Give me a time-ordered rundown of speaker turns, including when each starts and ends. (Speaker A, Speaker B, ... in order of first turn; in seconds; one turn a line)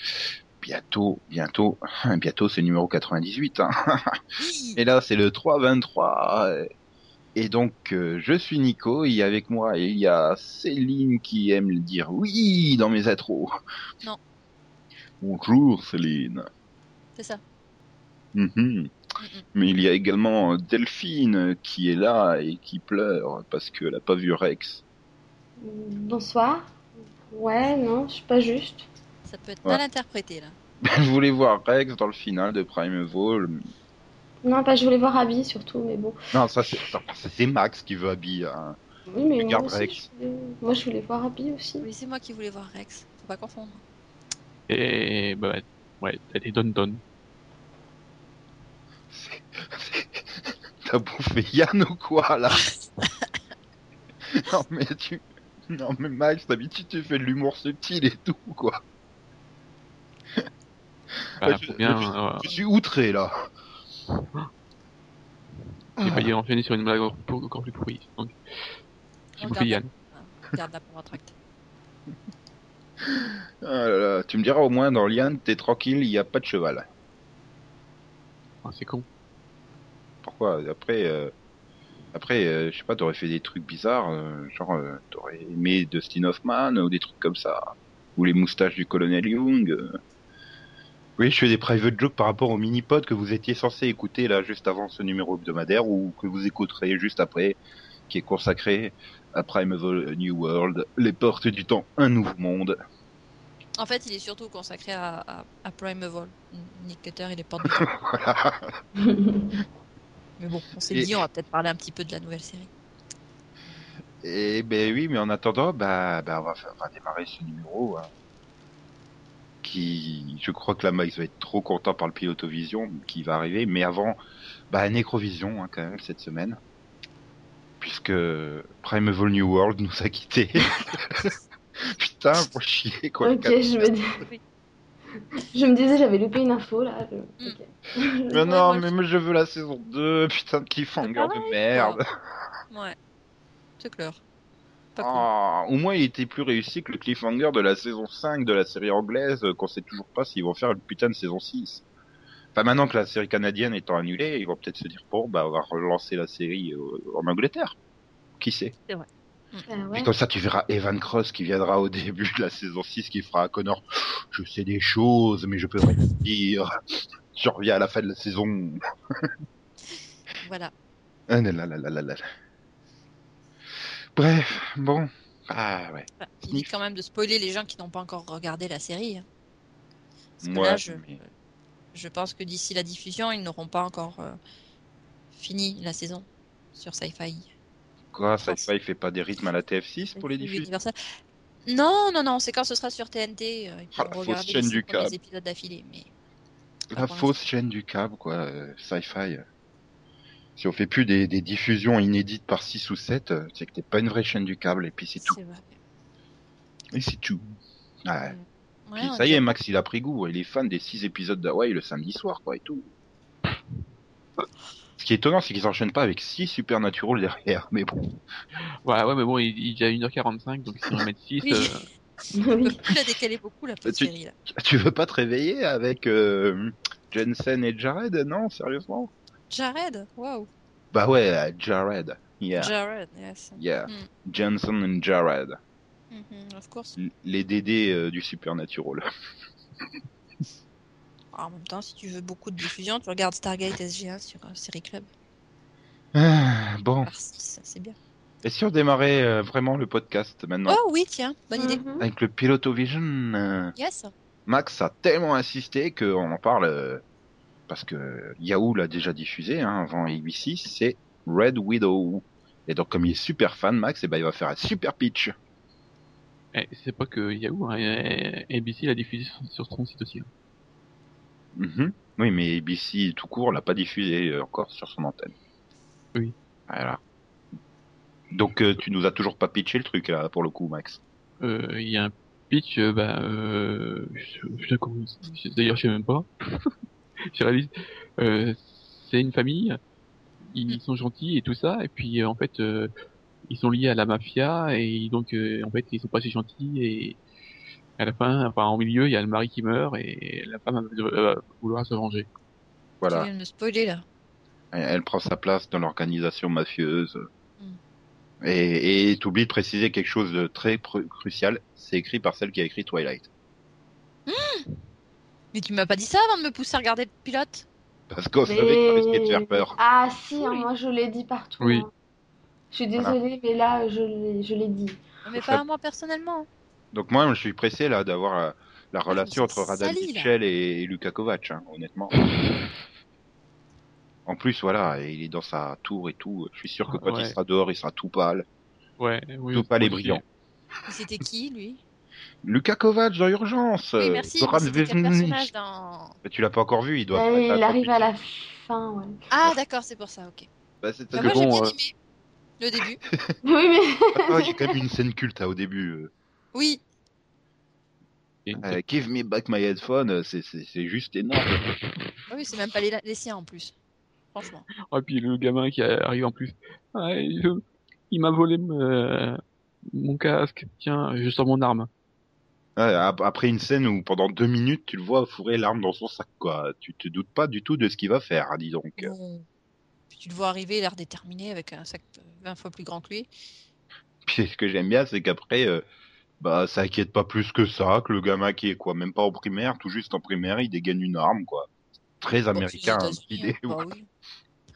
Speaker A: 0.6-4.2
Speaker B: 4.4-4.8
Speaker A: 4.8-6.7
Speaker A: 7.3-13.5
Speaker A: 15.2-16.5
Speaker B: 17.1-17.4
Speaker A: 18.3-18.9
Speaker B: 19.2-19.4
Speaker A: 19.5-24.8
Speaker C: 25.6-26.7
Speaker C: 27.3-28.9
Speaker B: 29.2-30.5
Speaker A: 30.8-33.6
Speaker C: 34.4-36.1
Speaker A: 36.3-38.8
Speaker C: 39.1-41.9
Speaker A: 39.4-40.0
Speaker B: 41.8-43.8
Speaker D: 44.7-47.0
Speaker A: 49.1-52.6
Speaker A: 54.3-58.8
Speaker D: 61.4-62.5
Speaker A: 61.4-63.3
Speaker A: 66.0-66.3
Speaker D: 66.0-68.3
Speaker D: 69.4-69.9
Speaker B: 69.4-71.3
Speaker A: 73.0-76.8
Speaker D: 78.6-79.0
Speaker A: 80.2-81.3
Speaker A: 82.1-90.0
Speaker A: 91.2-102.8
Speaker B: 103.8-107.9
Speaker A: 107.7-108.7
Speaker C: 109.0-109.6
Speaker B: 110.4-112.7
Speaker A: 110.9-111.2
Speaker A: 114.2-118.1
Speaker A: 119.6-124.2
Speaker A: 124.7-126.6
Speaker A: 127.8-131.3
Speaker A: 131.8-133.9
Speaker C: 133.2-134.2
Speaker C: 135.5-138.4
Speaker A: 138.3-142.0
Speaker B: 138.4-138.9
Speaker B: 141.0-142.0
Speaker B: 142.7-142.9
Speaker B: 143.8-144.2
Speaker B: 144.9-145.2
Speaker A: 145.0-151.8
Speaker A: 152.5-157.8
Speaker A: 158.4-158.7
Speaker B: 158.9-159.7
Speaker C: 159.7-160.1
Speaker A: 159.9-166.7
Speaker A: 167.3-169.3
Speaker B: 170.4-170.7
Speaker A: 171.3-172.2
Speaker A: 174.2-176.7
Speaker B: 176.2-179.2
Speaker B: 180.4-181.2
Speaker A: 180.4-181.2
Speaker B: 181.9-184.4
Speaker B: 185.3-187.5
Speaker A: 188.1-190.7
Speaker B: 190.2-190.9
Speaker B: 191.7-196.1
Speaker A: 193.9-195.1
Speaker A: 196.9-199.4
Speaker B: 196.9-197.3
Speaker A: 200.6-205.4
Speaker B: 205.2-205.7
Speaker A: 206.9-208.3
Speaker B: 208.3-209.6
Speaker A: 209.0-212.9
Speaker A: 215.0-218.1
Speaker D: 218.8-221.8
Speaker B: 221.4-221.7
Speaker C: 222.3-222.9
Speaker B: 222.6-224.3
Speaker A: 223.8-229.1
Speaker B: 229.5-230.5
Speaker A: 230.9-232.7
Speaker B: 232.6-234.1
Speaker A: 233.6-235.6
Speaker B: 236.1-236.9
Speaker A: 237.0-239.0
Speaker B: 241.3-245.1
Speaker A: 246.1-247.1
Speaker B: 247.0-247.9
Speaker A: 248.4-250.8
Speaker B: 250.7-251.8
Speaker C: 251.5-252.1
Speaker A: 252.0-253.7
Speaker B: 253.8-254.1
Speaker A: 254.5-257.0
Speaker A: 257.7-265.3
Speaker D: 266.5-270.3
Speaker A: 271.6-275.3
Speaker A: 276.7-277.0
Speaker A: 278.3-281.0
Speaker D: 281.4-286.7
Speaker D: 287.3-289.8
Speaker D: 290.5-292.9
Speaker D: 293.5-297.2
Speaker D: 298.0-302.3
Speaker A: 303.0-303.3
Speaker B: 303.1-304.0
Speaker A: 304.7-307.3
Speaker A: 308.4-313.3
Speaker B: 314.3-314.7
Speaker B: 315.5-317.6
Speaker A: 318.1-319.7
Speaker C: 318.4-321.9
Speaker B: 320.4-320.7
Speaker D: 321.6-321.9
Speaker C: 322.7-325.0
Speaker B: 325.2-326.5
Speaker A: 325.3-325.6
Speaker A: 326.9-332.1
Speaker B: 329.1-330.3
Speaker D: 332.2-332.6
Speaker A: 334.2-338.4
Speaker D: 336.9-337.4
Speaker D: 339.0-340.2
Speaker A: 339.5-340.2
Speaker B: 340.9-341.8
Speaker A: 342.4-345.5
Speaker B: 344.0-346.1
Speaker A: 346.2-348.1
Speaker C: 347.1-349.2
Speaker B: 349.3-350.5
Speaker A: 350.8-351.4
Speaker B: 351.1-351.9
Speaker D: 351.1-351.8
Speaker B: 352.6-353.0
Speaker C: 353.4-354.7
Speaker A: 354.2-356.1
Speaker B: 356.5-356.8
Speaker D: 358.4-358.8
Speaker A: 358.6-361.6
Speaker B: 362.3-363.7
Speaker B: 364.3-364.7
Speaker D: 364.9-371.9
Speaker A: 372.8-379.1
Speaker B: 379.0-379.4
Speaker B: 380.1-383.3
Speaker A: 384.2-385.8
Speaker A: 386.4-391.7
Speaker A: 392.2-393.8
Speaker B: 392.5-394.1